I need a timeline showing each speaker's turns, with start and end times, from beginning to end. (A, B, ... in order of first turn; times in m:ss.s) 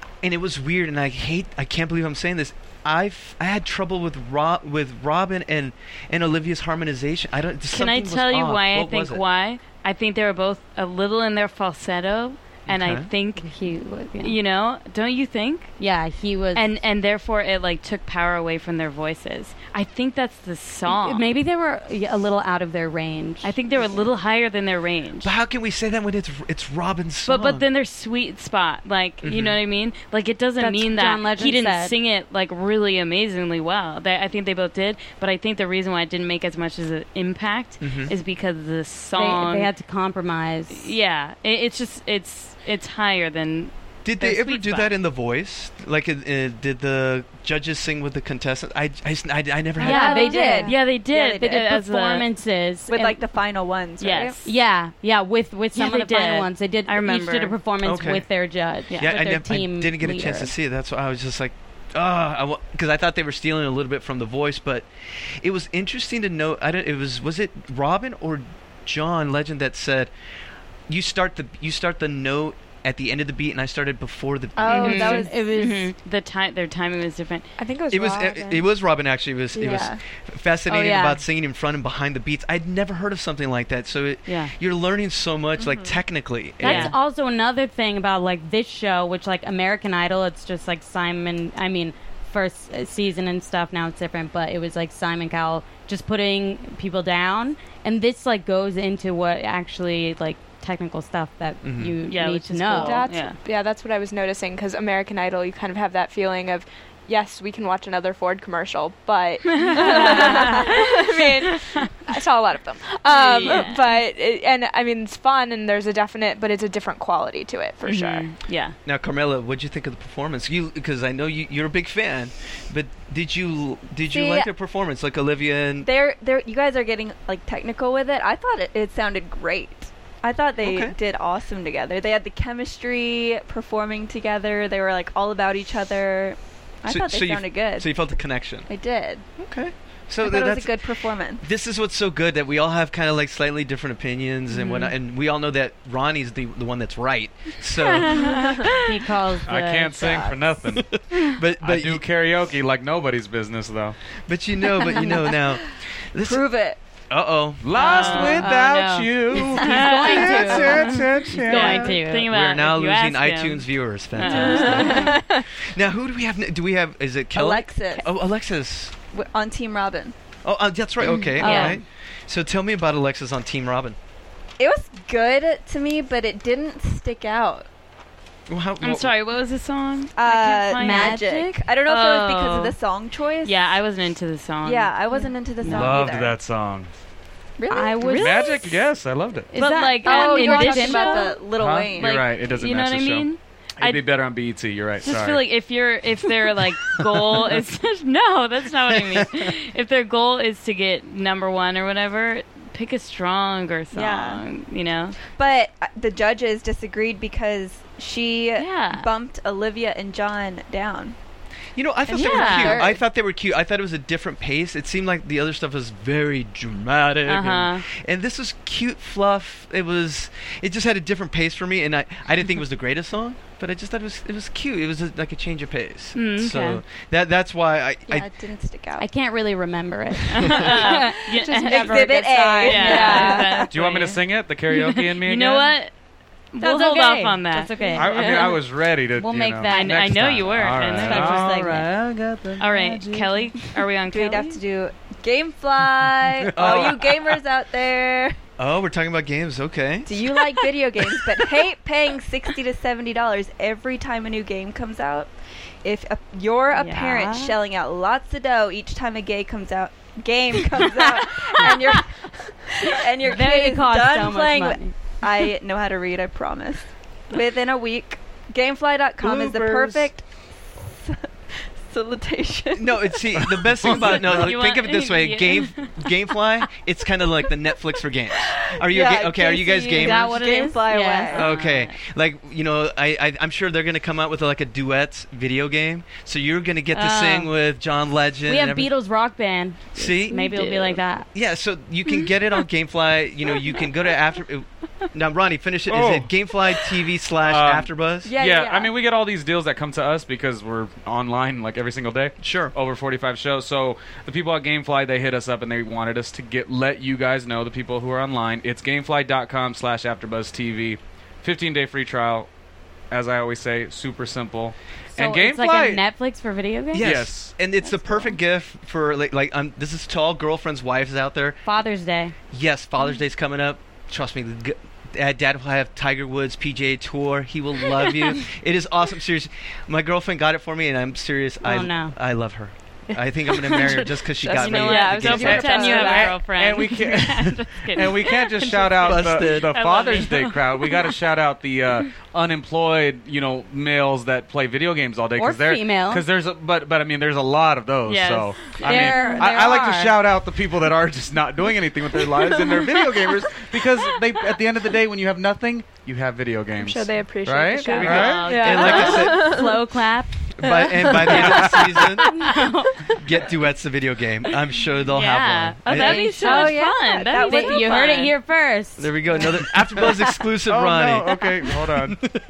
0:00.2-0:09.2 A
0:07.7-0:13.5 B
0:12.7-0:13.1 A
0:13.4-0:14.4 C
0:14.2-0:15.7 B
0:15.8-0:16.6 C
0:16.5-0:21.2 B
0:20.9-0:23.5 C
0:23.4-0:25.3 B
0:25.2-0:27.6 A
0:27.3-0:39.7 B
0:29.2-0:29.6 A
0:30.6-0:31.9 C
0:37.8-0:38.1 A
0:39.1-0:40.9 C
0:40.7-0:45.0 B
0:44.0-0:50.2 A
0:49.8-0:52.2 D
0:49.8-0:53.2 C
0:50.2-0:52.3 B
0:52.9-0:54.4 D
0:54.0-0:54.5 B
0:54.4-1:00.5 C
0:55.7-0:57.6 B
0:57.8-0:58.2 A
0:58.9-0:59.2 B
0:58.9-1:10.1 A
1:10.9-1:15.0 A
1:14.6-1:15.3 D
1:14.7-1:15.3 E
1:14.7-1:17.5 B
1:14.8-1:16.0 C
1:17.6-1:18.6 E
1:17.9-1:26.9 A
1:19.6-1:20.0 D
1:20.7-1:21.2 C
1:24.3-1:24.5 B
1:25.6-1:26.0 D
1:26.6-1:27.0 B
1:26.6-1:43.0 C
1:41.6-1:42.0 A
1:42.1-1:43.4 B
1:42.8-1:58.2 E
1:49.5-1:51.9 B
1:49.8-1:50.7 D
1:53.1-1:53.9 B
1:57.8-1:58.8 B
1:58.9-2:05.9 A
2:04.1-2:04.5 D
2:05.8-2:17.9 D
2:10.6-2:11.0 A
2:16.8-2:18.7 A
2:18.7-2:19.2 D
2:19.4-2:28.5 A
2:20.2-2:21.4 D
2:24.6-2:24.9 B
2:27.8-2:28.7 B
2:28.3-2:28.6 D
2:28.8-2:30.4 C
2:29.4-2:31.0 F
2:30.0-2:30.4 D
2:31.2-2:32.1 A
2:31.6-2:34.0 F
2:34.3-2:36.5 A
2:34.8-2:35.4 D
2:36.2-2:36.8 D
2:37.1-2:37.6 A
2:37.6-2:42.0 F
2:37.8-2:45.2 B
2:37.8-2:42.3 C
2:42.3-2:49.0 A
2:44.2-2:45.4 D
2:47.3-2:48.1 D
2:49.1-2:50.1 D
2:50.4-2:54.0 A
2:51.1-2:51.8 B
2:51.4-2:51.8 C
2:54.6-2:57.7 D
2:58.5-2:59.1 A
2:58.8-3:01.2 B
3:00.2-3:03.6 D
3:00.8-3:01.6 C
3:01.8-3:02.8 B
3:03.4-3:06.1 B
3:04.6-3:06.4 D
3:05.7-3:06.9 F
3:07.6-3:08.3 D
3:07.7-3:08.8 C
3:08.0-3:09.5 F
3:09.5-3:11.4 C
3:09.5-3:11.4 B
3:10.0-3:12.2 D
3:11.5-3:15.4 F
3:12.0-3:14.1 B
3:15.0-3:25.2 B
3:18.9-3:19.3 A
3:23.9-3:24.4 D
3:25.4-3:31.2 D
3:28.6-3:29.1 B
3:31.8-3:48.3 A
3:32.1-3:33.0 D
3:32.1-3:32.9 B
3:37.3-3:37.8 B
3:46.1-3:46.8 B
3:48.1-3:49.1 D
3:49.0-3:51.2 C
3:50.3-3:55.9 B
3:51.4-3:53.6 E
3:51.6-3:53.7 D
3:53.7-3:55.8 F
3:56.5-3:58.6 B
3:56.6-4:00.1 C
3:57.7-3:58.1 D
3:58.0-4:03.5 F
3:59.7-4:01.8 B
4:01.0-4:01.9 C
4:02.6-4:04.6 B
4:04.1-4:08.4 D
4:05.8-4:06.8 F
4:06.6-4:07.1 A
4:08.6-4:10.3 A
4:10.1-4:15.3 D
4:15.8-4:31.3 D
4:16.8-4:17.1 B
4:16.9-4:17.5 C
4:23.2-4:24.9 C
4:29.2-4:29.8 A
4:29.2-4:30.1 F
4:31.8-4:33.2 D
4:32.8-4:40.4 A
4:33.4-4:34.4 F
4:33.9-4:36.2 B
4:38.7-4:41.5 D
4:40.0-4:41.4 C
4:41.3-4:48.9 A
4:41.4-4:42.0 B
4:46.9-4:47.5 C
4:48.5-4:51.3 C
4:50.0-4:50.6 A
4:50.5-4:51.0 B
4:51.4-4:58.3 A
4:55.9-4:56.5 F
4:57.4-5:12.5 F
4:58.2-4:58.9 D
5:02.4-5:02.8 A
5:13.1-5:16.0 F
5:15.1-5:17.2 C
5:16.9-5:21.6 A
5:17.0-5:17.6 F
5:21.6-5:22.3 C
5:22.5-5:35.7 A
5:31.6-5:32.2 C
5:33.6-5:36.4 E
5:34.5-5:41.2 B
5:35.3-5:58.6 F
5:35.6-5:36.0 D
5:39.0-5:39.8 A
5:45.4-5:46.2 C
5:48.1-5:49.3 B
5:48.8-5:50.2 C
5:56.8-5:59.3 E
5:57.8-5:59.4 B
5:58.1-5:59.6 A
5:58.9-6:00.3 C
5:59.1-5:59.7 D
6:00.5-6:02.6 A
6:02.3-6:03.0 C
6:03.2-6:06.2 A
6:05.1-6:08.4 B
6:05.9-6:08.2 D
6:06.0-6:09.1 C
6:09.0-6:11.4 A
6:10.6-6:12.2 F